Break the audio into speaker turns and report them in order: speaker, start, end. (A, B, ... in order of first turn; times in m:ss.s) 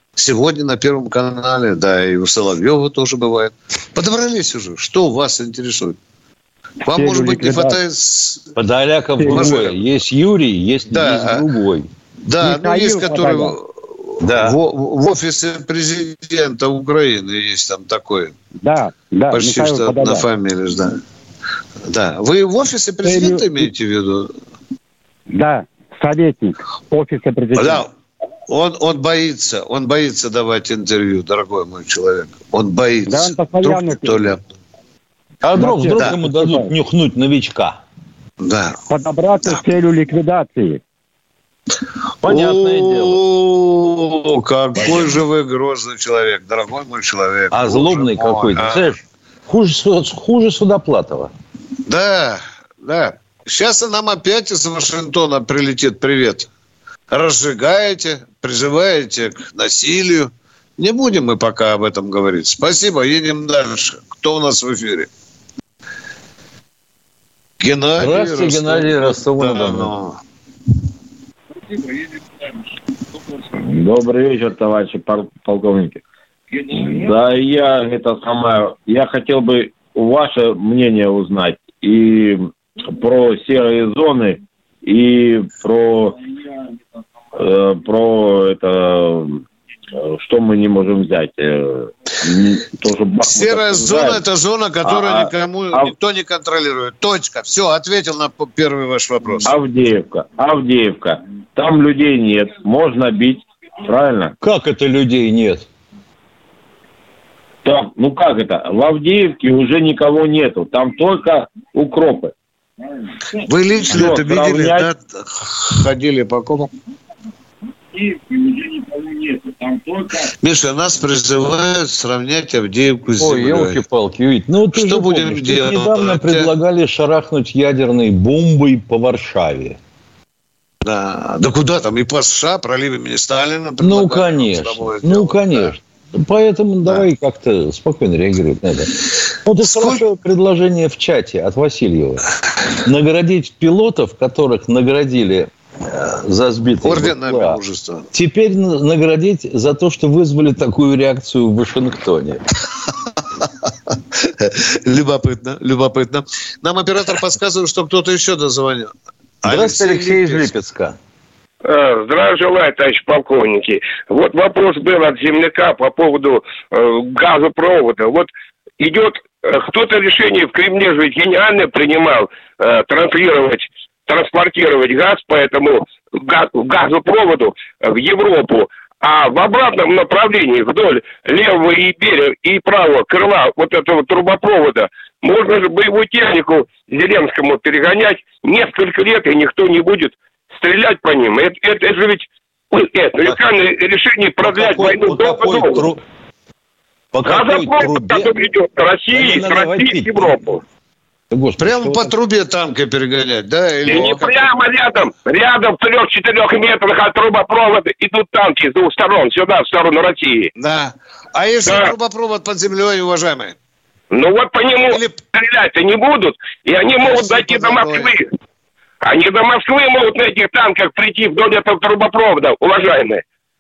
0:00.2-0:06.0 A
0:06.8-0:08.5 A
0:06.9-0:07.8 B
0:08.6-0:11.9 C
0:09.2-0:09.6 B
0:09.2-0:09.8 A
0:10.9-0:11.4 A
0:12.2-0:18.3 A
0:12.4-0:13.6 B
0:14.2-0:14.6 C
0:18.6-0:20.3 B
0:19.3-0:21.0 A
0:21.9-0:24.3 A
0:23.0-0:23.7 B
0:25.3-0:27.9 B
0:27.6-0:27.9 A
0:28.5-0:34.4 A
0:33.1-0:34.4 B
0:35.4-0:37.8 C
0:35.6-0:36.7 B
0:38.4-0:38.8 A
0:38.9-0:40.8 B
0:42.2-0:43.2 C
0:42.2-0:48.9 A
0:47.5-0:51.3 C
0:51.9-0:56.5 A
0:57.1-1:05.1 A
1:07.6-1:10.2 A
1:08.0-1:09.9 C
1:13.5-1:16.0 D
1:16.5-1:26.2 D
1:27.4-1:34.2 D
1:33.2-1:39.5 A
1:34.8-1:35.9 D
1:39.4-1:44.3 D
1:44.4-1:45.7 C
1:47.6-1:52.3 D
1:53.4-1:56.7 A
1:53.9-1:54.9 D
1:58.8-2:00.1 D
2:00.3-2:03.8 A
2:03.2-2:09.8 C
2:04.7-2:06.5 A
2:10.8-2:15.7 A
2:13.8-2:18.9 C
2:19.4-2:22.2 C
2:19.6-2:20.0 A
2:22.8-2:27.6 C
2:26.8-2:28.1 A
2:28.1-2:32.4 C
2:33.4-2:38.9 A
2:39.4-2:40.5 A
2:39.4-2:41.0 C
2:41.7-2:48.3 E
2:48.8-3:15.9 E
3:14.4-3:16.0 C
3:17.1-3:18.4 C
3:17.2-3:20.6 E
3:19.1-3:20.4 C
3:21.3-3:22.1 C
3:21.6-3:24.5 A
3:23.8-3:30.5 E
3:30.6-3:33.6 A
3:31.7-3:31.9 E
3:34.1-3:38.3 E
3:34.9-3:35.2 A
3:37.0-3:38.1 A
3:39.0-3:43.2 E